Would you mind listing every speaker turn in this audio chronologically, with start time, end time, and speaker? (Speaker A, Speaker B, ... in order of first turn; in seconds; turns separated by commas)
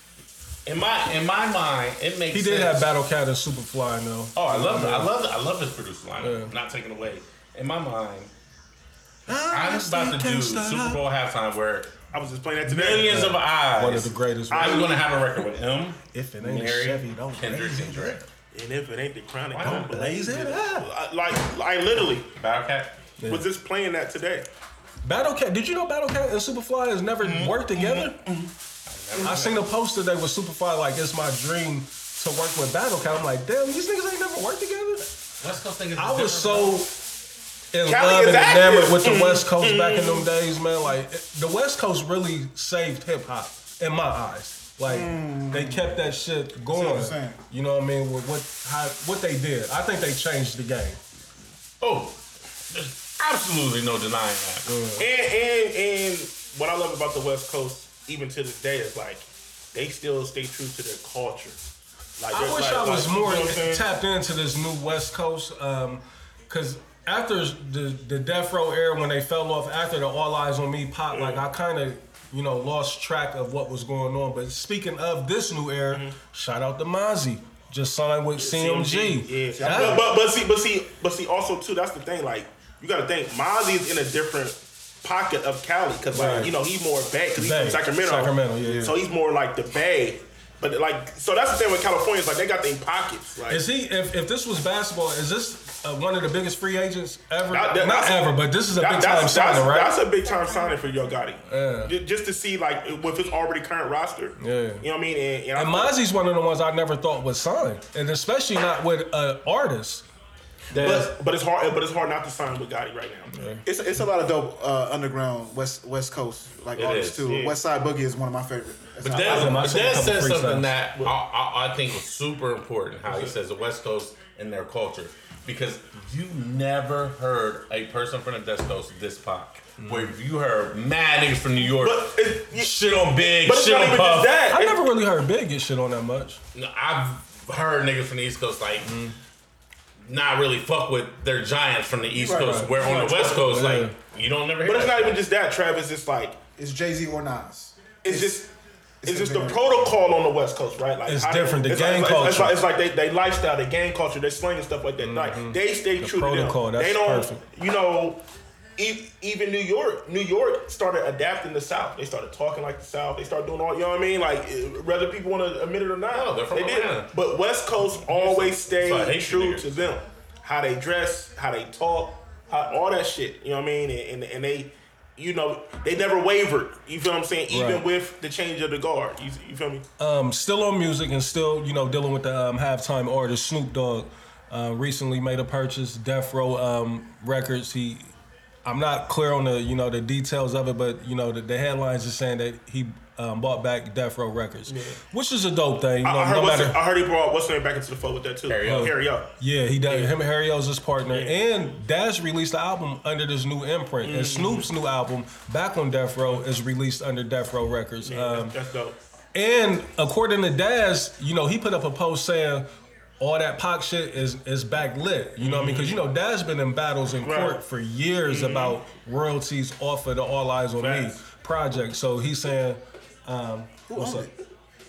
Speaker A: 0.6-2.9, Speaker B: 2.3-5.1, Speaker A: 4.3-8.3, Speaker B: 6.2-6.5, Speaker B: 9.3-11.1, Speaker A: 9.5-11.9, Speaker C: 12.1-13.3, Speaker A: 12.6-18.2, Speaker B: 12.9-14.9, Speaker C: 14.5-15.0, Speaker B: 16.1-18.3, Speaker C: 18.5-22.3, Speaker A: 19.5-20.0, Speaker B: 19.6-20.9, Speaker A: 22.3-23.0, Speaker B: 23.2-23.5, Speaker C: 23.3-24.5, Speaker B: 25.0-28.2, Speaker C: 27.2-28.5, Speaker A: 28.9-29.7, Speaker B: 29.2-35.1, Speaker A: 35.4-36.8, Speaker B: 36.0-37.0, Speaker B: 37.7-51.0, Speaker C: 37.9-40.3, Speaker D: 44.9-45.9, Speaker D: 46.7-47.4, Speaker A: 51.8-54.7, Speaker B: 54.6-55.1, Speaker C: 55.0-61.6, Speaker C: 62.2-63.8, Speaker B: 62.3-80.1, Speaker C: 71.1-71.4, Speaker C: 75.9-76.2, Speaker C: 78.4-93.6, Speaker D: 79.5-80.2, Speaker B: 86.1-86.5, Speaker B: 87.3-89.0, Speaker D: 88.6-89.0, Speaker B: 93.5-100.0, Speaker C: 97.5-106.0, Speaker B: 101.5-102.0, Speaker B: 104.4-104.8, Speaker B: 105.5-110.0, Speaker B: 110.7-111.0, Speaker C: 110.7-113.3, Speaker A: 110.8-111.1, Speaker B: 113.3-113.6, Speaker D: 113.6-119.6, Speaker A: 116.7-117.3, Speaker C: 117.2-117.6, Speaker A: 119.0-134.4, Speaker C: 119.1-119.8, Speaker B: 119.2-120.8, Speaker B: 129.8-130.2, Speaker C: 131.8-134.8, Speaker B: 134.5-136.4, Speaker A: 136.5-139.0, Speaker B: 138.8-139.2, Speaker A: 140.0-145.2, Speaker D: 142.1-143.4, Speaker B: 142.4-143.9, Speaker C: 142.9-143.2, Speaker C: 144.6-146.4, Speaker D: 146.6-148.4, Speaker C: 148.0-148.5, Speaker D: 149.0-149.7, Speaker C: 149.0-158.2, Speaker B: 151.1-152.6, Speaker B: 155.0-157.4, Speaker C: 158.8-179.8, Speaker A: 166.1-167.1, Speaker A: 168.0-169.9, Speaker B: 177.5-177.8, Speaker B: 180.0-188.1, Speaker B: 188.6-196.8, Speaker C: 194.7-195.0, Speaker C: 196.0-199.3, Speaker A: 198.5-198.9, Speaker B: 198.6-208.6, Speaker C: 199.8-200.1, Speaker C: 201.1-201.4, Speaker C: 204.0-204.7, Speaker C: 208.0-208.9, Speaker B: 209.3-224.3, Speaker C: 215.4-216.0, Speaker C: 217.2-217.6, Speaker C: 218.3-218.8, Speaker C: 220.8-221.2, Speaker D: 223.9-224.3